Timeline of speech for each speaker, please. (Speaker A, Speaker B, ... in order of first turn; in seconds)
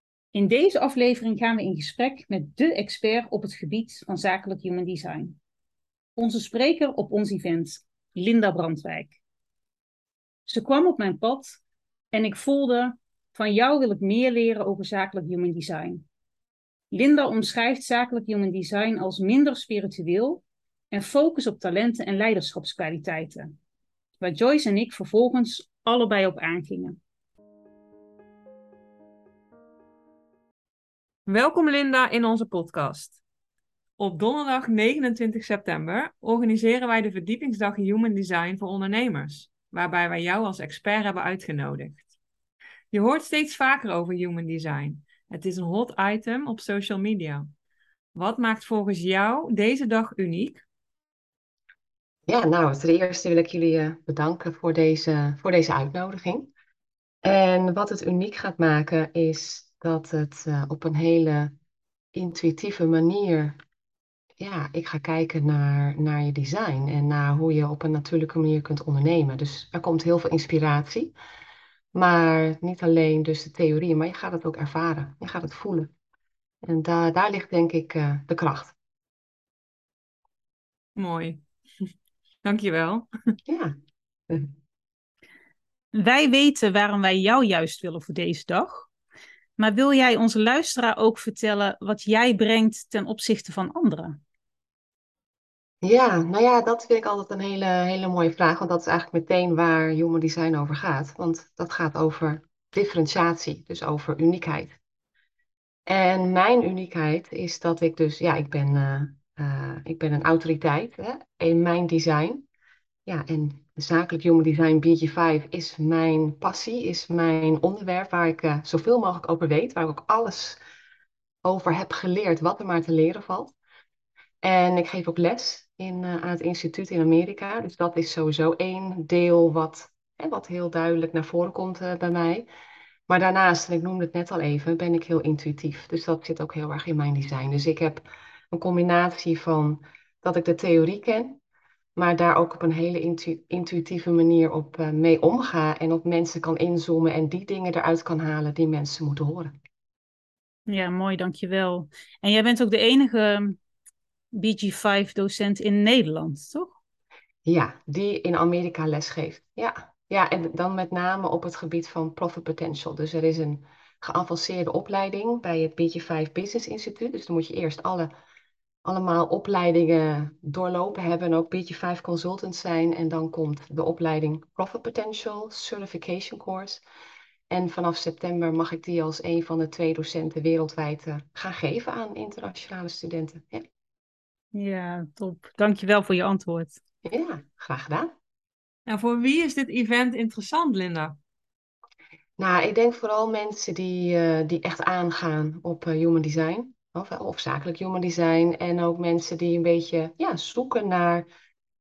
Speaker A: 0.3-5.4, 6.2-9.2, 10.4-11.6, 12.1-16.0, 16.9-23.5, 24.2-27.0, 85.9-88.9, 89.6-94.2, 150.7-153.6, 154.3-156.7, 184.5-186.8
Speaker B: 31.3-33.2, 34.0-42.1, 42.9-47.5, 48.1-50.6, 81.0-81.4, 82.4-83.1, 188.9-191.2
Speaker C: 52.3-56.5, 57.2-61.5, 62.1-63.6, 64.4-71.1, 71.9-75.9, 76.6-78.7, 83.5-83.7, 95.8-104.8, 105.9-112.4, 113.0-120.6, 121.4-123.5, 124.4-132.4, 133.1-141.4, 141.9-149.5, 157.4-168.1, 168.8-176.8, 177.5-183.6, 187.0-188.1, 192.4-201.3